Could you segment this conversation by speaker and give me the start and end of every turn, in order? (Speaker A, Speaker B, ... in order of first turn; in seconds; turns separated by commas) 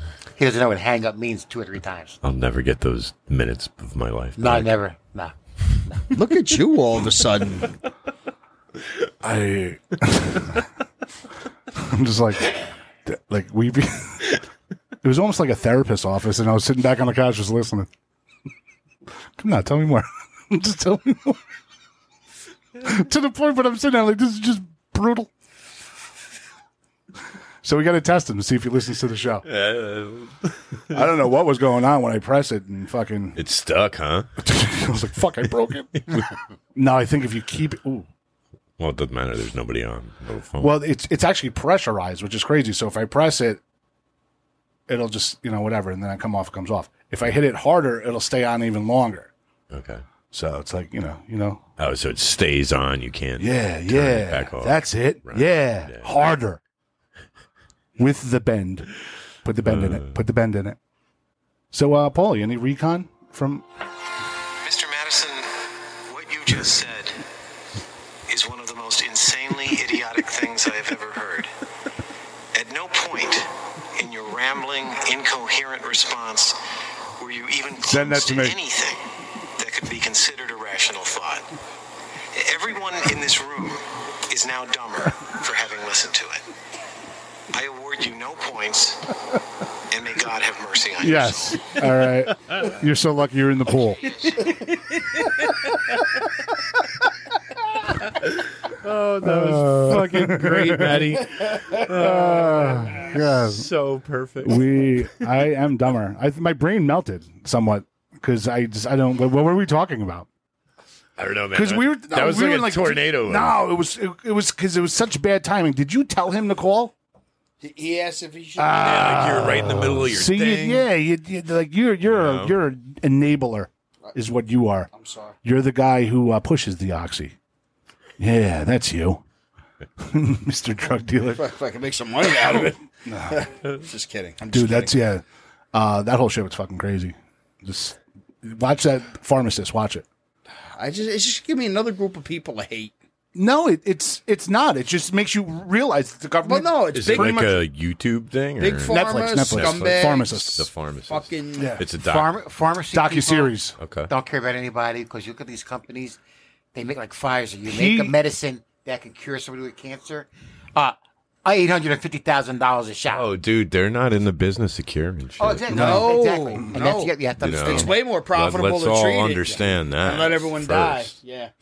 Speaker A: 0.4-2.2, Speaker B: 2.2-4.7, Speaker A: 4.4-5.3, Speaker C: 6.1-7.7, Speaker D: 9.2-10.6, Speaker D: 11.7-14.3, Speaker D: 15.0-17.9, Speaker D: 19.4-21.4, Speaker D: 22.8-25.3, Speaker D: 27.6-29.5, Speaker B: 29.5-30.5, Speaker D: 30.9-33.4, Speaker B: 33.4-34.3, Speaker D: 34.4-36.0, Speaker D: 36.8-38.0, Speaker B: 38.8-40.8, Speaker D: 40.6-43.6, Speaker D: 44.9-49.3, Speaker B: 49.7-50.0, Speaker D: 50.3-51.6, Speaker B: 51.8-56.1, Speaker D: 53.4-56.6, Speaker D: 58.0-58.9, Speaker D: 59.4-60.8, Speaker B: 59.7-60.1, Speaker D: 61.7-63.6, Speaker E: 64.6-65.5, Speaker E: 66.0-67.2, Speaker E: 68.3-71.5, Speaker E: 72.5-76.6, Speaker E: 77.2-79.0, Speaker D: 77.8-78.6, Speaker E: 79.6-81.5, Speaker E: 82.3-86.5, Speaker E: 87.5-89.1, Speaker E: 89.9-91.7, Speaker D: 91.0-94.1, Speaker B: 94.2-94.5, Speaker B: 98.6-105.2, Speaker D: 99.2-101.2, Speaker D: 101.8-103.7, Speaker D: 104.4-110.3, Speaker B: 111.2-113.6, Speaker D: 111.5-116.9, Speaker C: 117.6-119.5, Speaker D: 118.6-124.9, Speaker B: 118.8-120.8, Speaker B: 122.1-122.5, Speaker C: 124.9-125.3, Speaker D: 125.4-127.3, Speaker D: 128.2-129.2, Speaker D: 130.0-131.5, Speaker C: 131.4-134.9, Speaker D: 133.1-133.5, Speaker D: 134.4-140.0, Speaker C: 140.8-142.9, Speaker D: 143.3-147.4, Speaker C: 146.4-147.6, Speaker B: 146.9-152.3, Speaker C: 148.6-150.4, Speaker D: 148.9-150.7, Speaker C: 151.1-151.7, Speaker D: 151.6-151.8, Speaker A: 152.0-153.5, Speaker D: 152.9-153.8, Speaker B: 153.8-154.1, Speaker A: 154.1-156.2, Speaker A: 156.7-163.3, Speaker D: 157.6-158.1, Speaker B: 163.1-165.6, Speaker A: 165.4-167.9, Speaker D: 165.7-166.7, Speaker C: 165.7-167.1, Speaker B: 167.4-171.1, Speaker C: 167.6-171.5